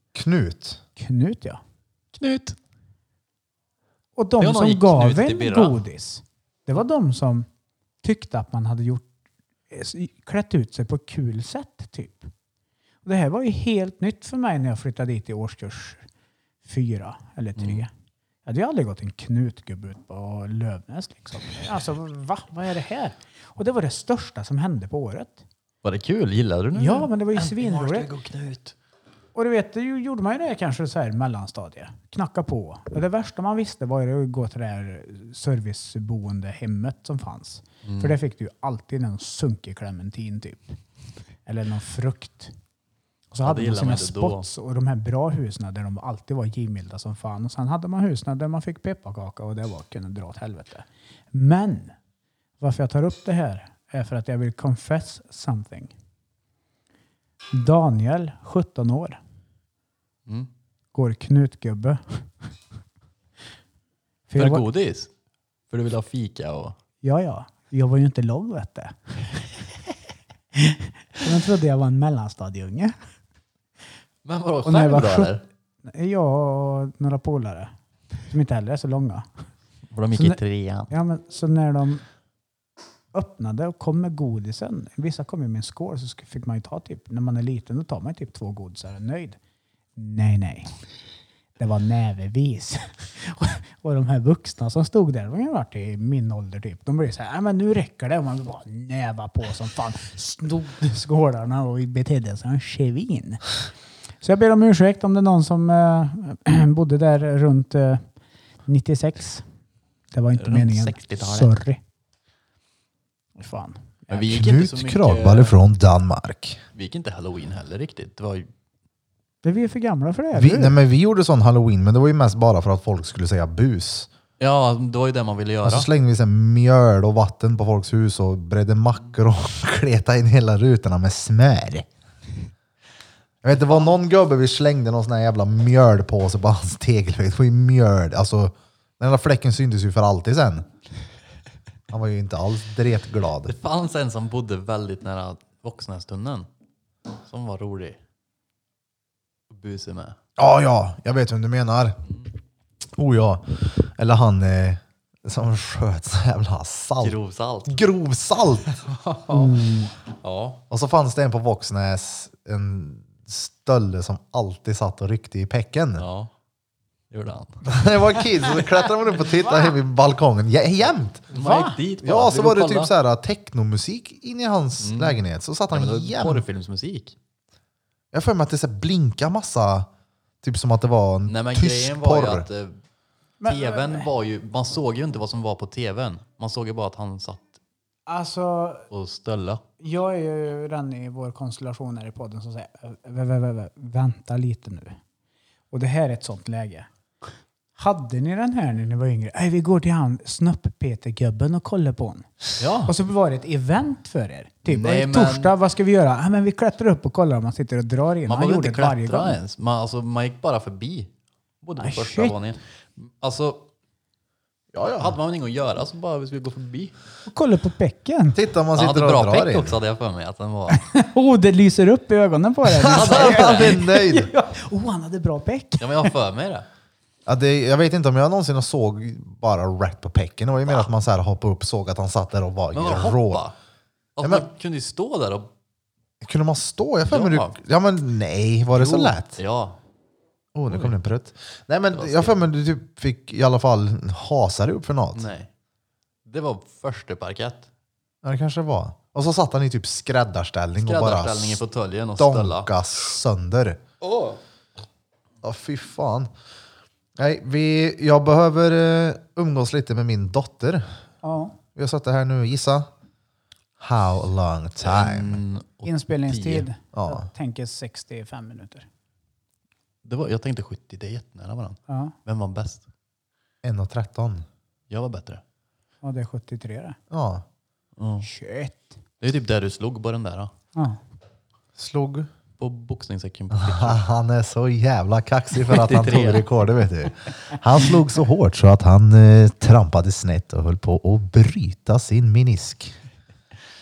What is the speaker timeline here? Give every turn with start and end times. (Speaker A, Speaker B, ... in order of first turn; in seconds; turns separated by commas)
Speaker A: 0.1-0.8, Speaker B: 1.0-1.6, Speaker C: 2.1-2.6, Speaker B: 4.2-7.5, Speaker C: 4.4-5.8, Speaker B: 8.0-9.1, Speaker B: 9.7-12.3, Speaker B: 13.1-16.0, Speaker B: 16.6-17.9, Speaker C: 17.6-17.8, Speaker B: 18.4-25.4, Speaker C: 25.8-28.7, Speaker B: 26.8-28.1, Speaker B: 29.4-40.8, Speaker C: 37.9-38.2, Speaker B: 41.5-42.5, Speaker B: 43.3-52.0, Speaker C: 43.4-44.4, Speaker B: 52.6-55.9, Speaker B: 57.5-59.2, Speaker B: 60.9-62.2, Speaker B: 64.3-64.6, Speaker C: 64.4-65.1, Speaker C: 65.7-66.8, Speaker B: 67.0-69.1, Speaker B: 70.5-73.0, Speaker C: 74.2-75.4, Speaker B: 74.6-77.7, Speaker B: 78.3-79.3, Speaker C: 79.9-80.9, Speaker B: 80.9-82.0, Speaker B: 83.1-89.4, Speaker B: 90.0-90.7, Speaker B: 91.6-103.5, Speaker B: 104.2-108.0, Speaker B: 108.7-109.5, Speaker B: 110.1-111.8, Speaker C: 110.4-111.5, Speaker B: 113.4-114.3, Speaker C: 114.1-115.6, Speaker A: 114.3-116.6, Speaker C: 116.8-118.5, Speaker B: 119.4-120.8, Speaker A: 120.3-124.1, Speaker C: 124.4-125.9, Speaker A: 125.6-131.9, Speaker A: 133.4-140.7, Speaker C: 133.7-133.9, Speaker A: 141.9-143.5, Speaker C: 143.5-146.5, Speaker C: 147.3-148.0, Speaker C: 149.5-150.2, Speaker A: 150.4-152.0, Speaker A: 153.0-157.2, Speaker C: 157.0-157.8, Speaker A: 157.7-158.7, Speaker C: 158.7-159.6, Speaker B: 159.3-159.9, Speaker C: 160.2-160.6, Speaker A: 160.7-166.1, Speaker C: 166.0-166.3, Speaker C: 167.1-168.9, Speaker A: 167.6-171.3, Speaker C: 171.3-172.9, Speaker B: 171.3-171.8, Speaker A: 172.0-176.4, Speaker C: 174.8-175.2, Speaker C: 175.7-177.2, Speaker A: 178.1-179.9, Speaker A: 180.4-182.5, Speaker C: 181.3-182.8, Speaker B: 183.4-184.1, Speaker C: 183.4-187.5, Speaker B: 188.1-188.9, Speaker C: 188.9-189.6, Speaker B: 189.8-195.0, Speaker B: 195.7-196.9, Speaker B: 197.8-202.3, Speaker C: 202.6-202.9, Speaker B: 202.9-209.4, Speaker C: 204.7-205.5, Speaker C: 208.3-211.1, Speaker C: 211.6-213.6, Speaker B: 211.8-212.3, Speaker A: 214.7-215.2, Speaker C: 215.0-216.9, Speaker B: 217.3-218.4, Speaker A: 218.3-219.8, Speaker C: 218.8-220.8, Speaker B: 220.7-226.1, Speaker A: 222.8-224.3, Speaker C: 222.8-223.9, Speaker C: 225.8-226.7, Speaker A: 227.3-233.4, Speaker C: 232.7-233.5, Speaker C: 234.2-235.5, Speaker A: 236.2-239.4, Speaker C: 237.1-237.6, Speaker C: 238.7-239.8, Speaker A: 240.6-245.3, Speaker C: 240.7-241.0, Speaker C: 241.9-242.4, Speaker C: 245.1-245.5, Speaker C: 246.3-247.7, Speaker A: 248.2-251.6, Speaker C: 250.8-252.7, Speaker A: 252.2-253.8, Speaker C: 254.0-254.4, Speaker A: 255.4-256.3, Speaker A: 257.2-260.8, Speaker B: 261.2-261.6, Speaker A: 261.8-262.9, Speaker A: 263.8-265.4, Speaker C: 264.8-266.7, Speaker B: 265.8-268.9, Speaker A: 266.9-267.3, Speaker C: 270.1-272.8, Speaker B: 271.9-272.1, Speaker A: 273.6-274.5, Speaker C: 274.9-275.4, Speaker B: 276.0-277.0, Speaker A: 277.1-277.4, Speaker C: 278.0-278.3, Speaker B: 278.2-279.0, Speaker C: 279.2-280.5, Speaker A: 281.8-282.3, Speaker C: 282.6-284.0, Speaker A: 283.5-292.9, Speaker C: 285.7-286.5